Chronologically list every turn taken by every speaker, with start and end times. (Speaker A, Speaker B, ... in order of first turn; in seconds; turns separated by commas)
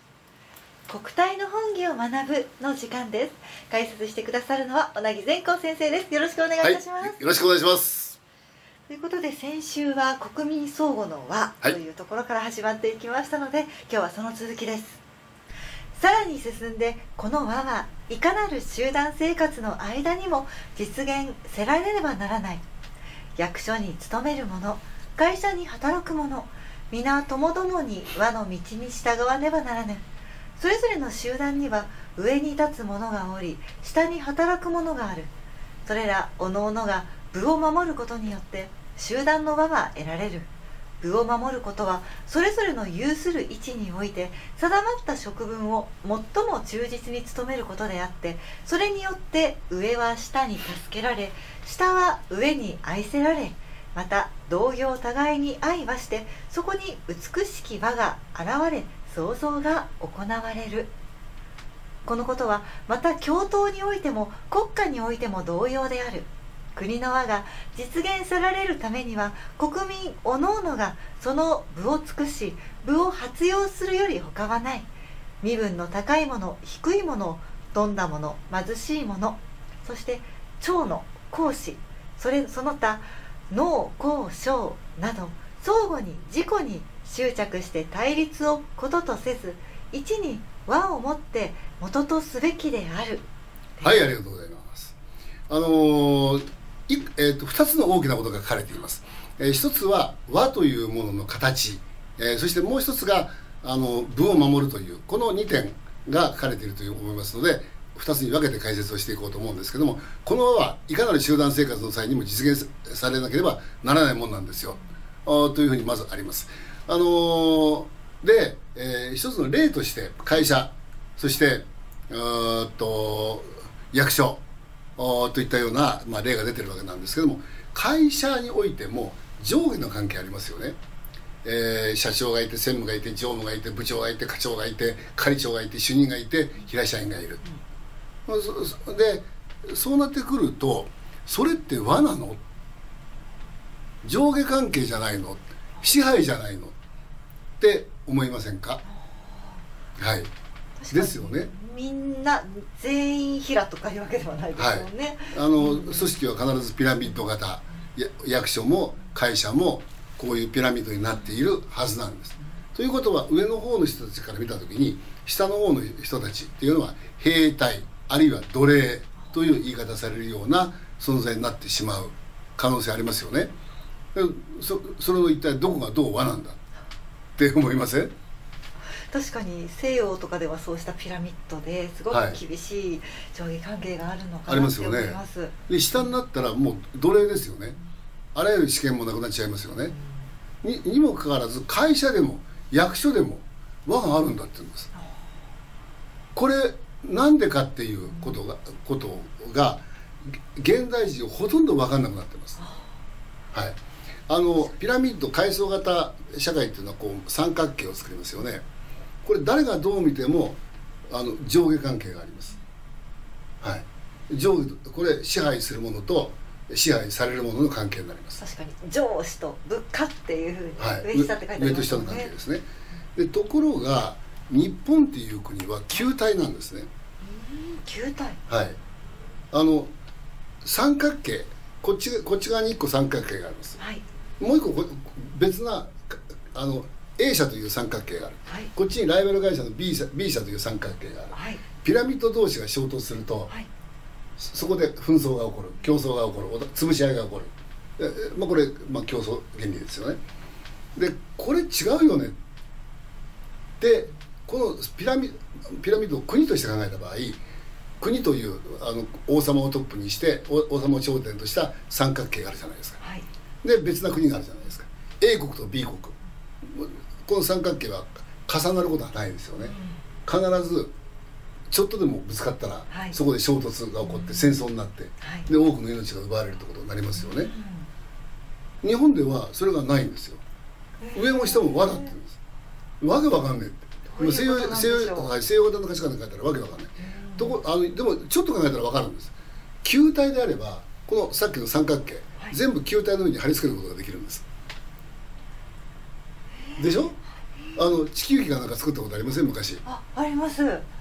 Speaker A: 0.9-7.2, Speaker B: 6.6-8.2, Speaker A: 8.9-15.0, Speaker A: 15.9-22.6, Speaker A: 23.4-30.0, Speaker A: 30.6-35.3, Speaker A: 35.9-40.5, Speaker A: 41.0-60.9, Speaker A: 62.0-74.9, Speaker A: 75.4-93.2, Speaker A: 93.8-94.1, Speaker B: 93.8-94.9, Speaker B: 95.5-124.4, Speaker B: 125.0-130.8, Speaker B: 131.4-137.4, Speaker B: 138.3-142.4, Speaker B: 144.0-146.8, Speaker B: 147.6-148.8, Speaker A: 148.9-149.5, Speaker B: 150.0-150.3, Speaker A: 150.8-156.1, Speaker B: 150.9-151.5, Speaker B: 154.6-173.5, Speaker B: 174.1-176.6, Speaker B: 177.4-178.1, Speaker A: 179.1-185.5, Speaker B: 182.1-182.4, Speaker B: 184.5-187.8, Speaker B: 188.3-189.9, Speaker B: 190.6-194.9, Speaker B: 196.3-199.8, Speaker B: 200.5-202.6, Speaker A: 202.6-202.9, Speaker B: 204.3-208.6, Speaker B: 209.2-212.5, Speaker B: 213.6-218.4, Speaker A: 218.4-222.3, Speaker B: 220.8-226.9, Speaker A: 227.2-228.4, Speaker B: 228.5-228.8, Speaker B: 229.5-229.9, Speaker B: 230.6-233.8, Speaker B: 234.4-243.5, Speaker A: 238.4-238.7, Speaker A: 241.3-241.6, Speaker B: 244.4-250.2, Speaker B: 250.9-252.3, Speaker B: 253.8-257.4, Speaker B: 258.0-263.0, Speaker A: 263.0-263.2, Speaker B: 263.6-269.7, Speaker A: 269.6-270.0, Speaker B: 270.2-270.9, Speaker B: 271.7-277.5, Speaker A: 272.9-273.1, Speaker A: 274.0-274.6, Speaker A: 275.2-275.5, Speaker A: 277.1-277.9, Speaker B: 278.8-280.4, Speaker A: 281.0-282.1, Speaker B: 281.1-282.4, Speaker B: 283.0-294.4, Speaker A: 284.1-285.3, Speaker A: 287.0-287.6, Speaker B: 296.8-297.2, Speaker B: 297.7-299.8, Speaker A: 299.8-300.8